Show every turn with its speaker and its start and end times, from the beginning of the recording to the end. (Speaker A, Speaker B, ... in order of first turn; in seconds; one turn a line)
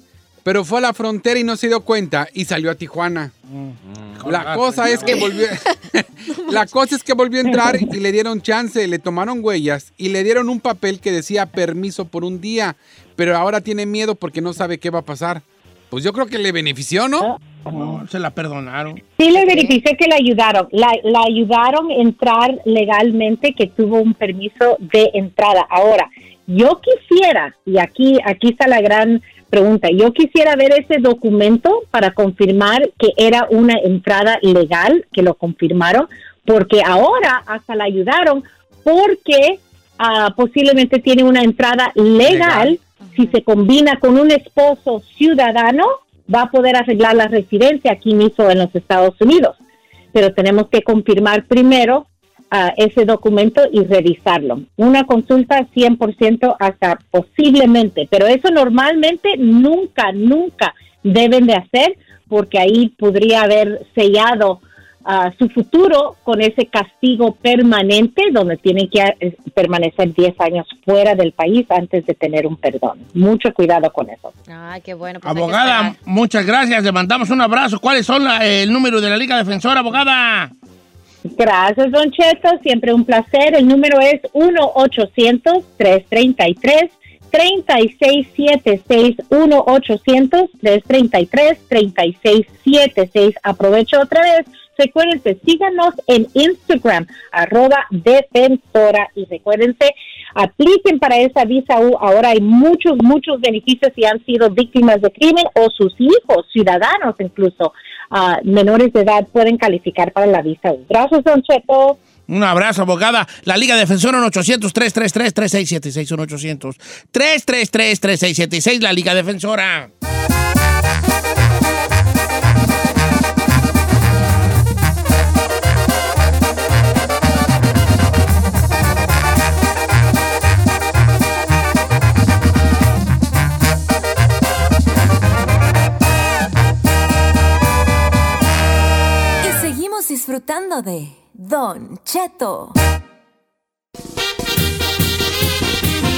Speaker A: 0.4-3.3
Speaker B: 3.5-5.3
Speaker A: 4.2-17.3
Speaker C: 5.0-5.7
Speaker B: 17.7-19.7
Speaker D: 19.2-49.6
Speaker A: 42.2-42.7
Speaker D: 50.1-74.3
Speaker C: 74.5-76.0
Speaker B: 75.2-80.5
Speaker D: 81.3-112.0
Speaker B: 112.3-119.9
Speaker E: 139.4-142.7